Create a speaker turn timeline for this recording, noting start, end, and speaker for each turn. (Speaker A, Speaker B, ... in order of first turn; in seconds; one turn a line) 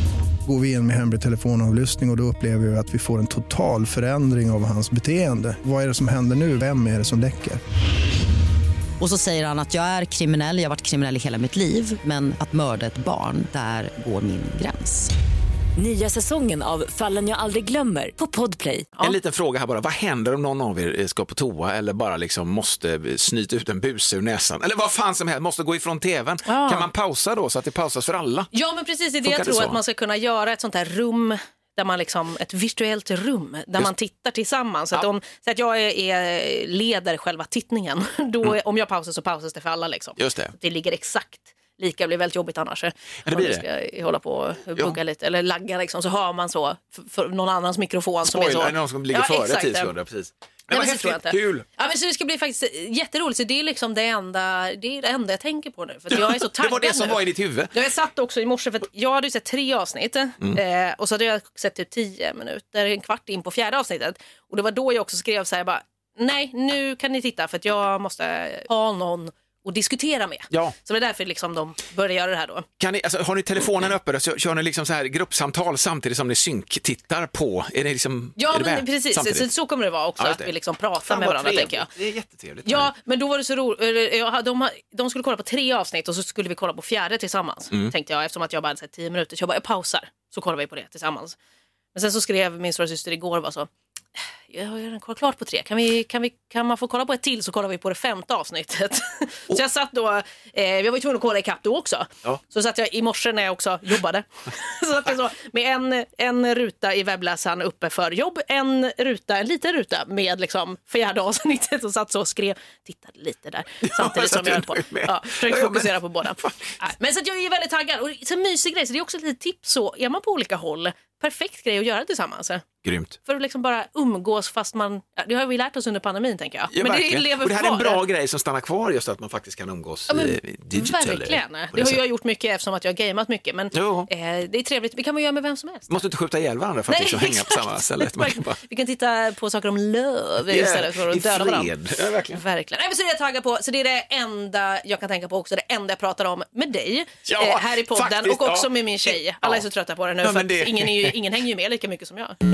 Speaker A: 0.4-7.6
Speaker B: 9.0-15.1
Speaker C: 15.8-18.9
Speaker D: 19.0-28.5
Speaker E: 26.4-26.9
Speaker E: 28.5-49.9
Speaker D: 29.2-29.8
Speaker D: 40.2-40.5
Speaker D: 43.2-43.6
Speaker D: 48.2-51.6
Speaker E: 50.7-72.7
Speaker D: 56.1-57.7
Speaker D: 72.8-79.5
Speaker E: 78.4-81.9
Speaker D: 80.2-82.9
Speaker E: 82.6-91.3
Speaker E: 91.9-93.7
Speaker E: 94.5-122.7
Speaker D: 113.8-116.6
Speaker D: 122.8-123.2
Speaker E: 123.2-128.0
Speaker D: 126.7-132.0
Speaker E: 130.1-136.0
Speaker D: 133.7-134.1
Speaker D: 135.9-138.6
Speaker E: 136.9-141.7
Speaker D: 140.5-142.4
Speaker E: 142.3-152.4
Speaker D: 147.2-149.6
Speaker D: 150.2-151.2